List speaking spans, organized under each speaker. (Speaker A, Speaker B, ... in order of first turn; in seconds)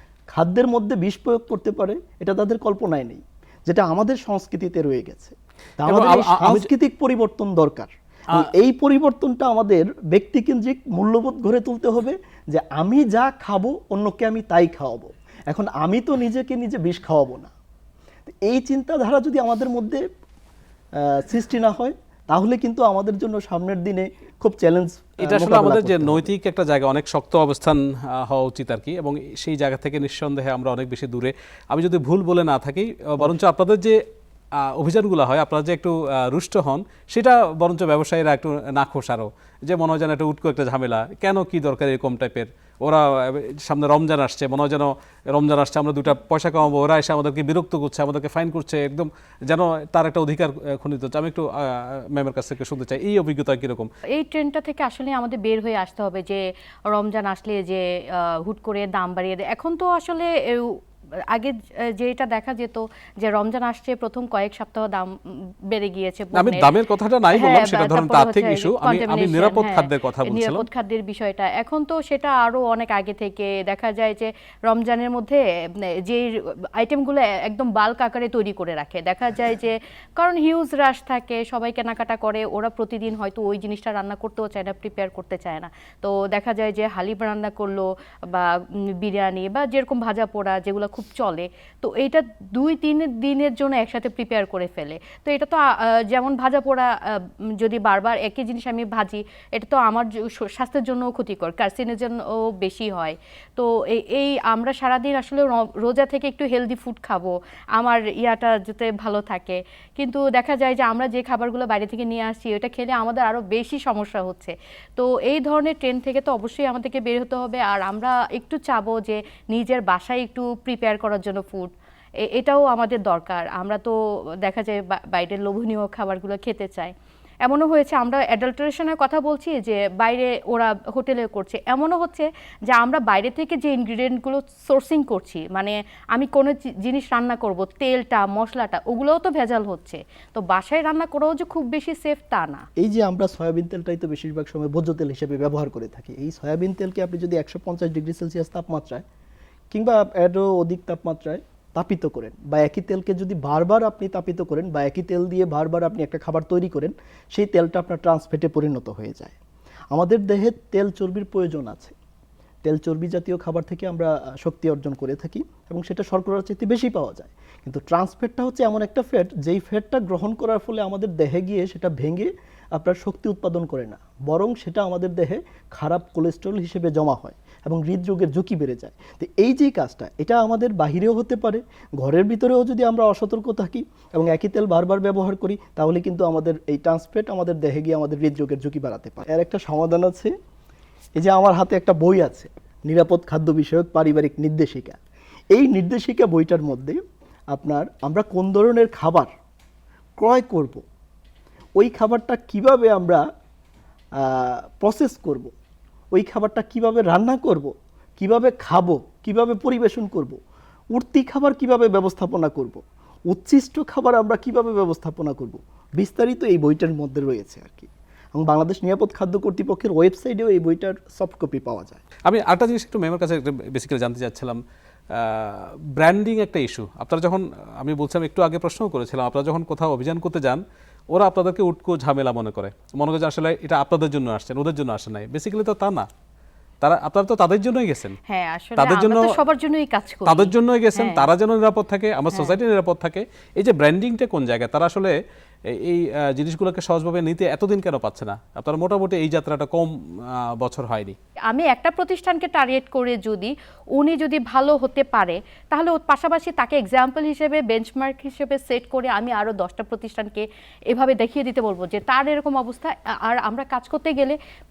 Speaker A: 0.3-17.5, 18.2-20.0, 21.0-26.3, 142.8-149.0, 149.7-159.4, 159.9-161.9, 162.6-190.3, 191.2-195.0, 195.5-197.0, 197.5-199.3, 200.2-200.8, 201.8-203.2, 204.2-205.5, 206.1-210.4, 210.9-222.0
Speaker B: 5.8-6.7, 25.2-34.0, 34.6-53.9, 66.3-70.6, 222.2-236.1, 236.8-238.2, 238.8-239.4, 240.2-245.2, 245.7-251.2
Speaker C: 54.1-66.7, 67.3-121.7, 122.2-126.9, 127.4-142.7, 238.3-241.2, 251.5-264.4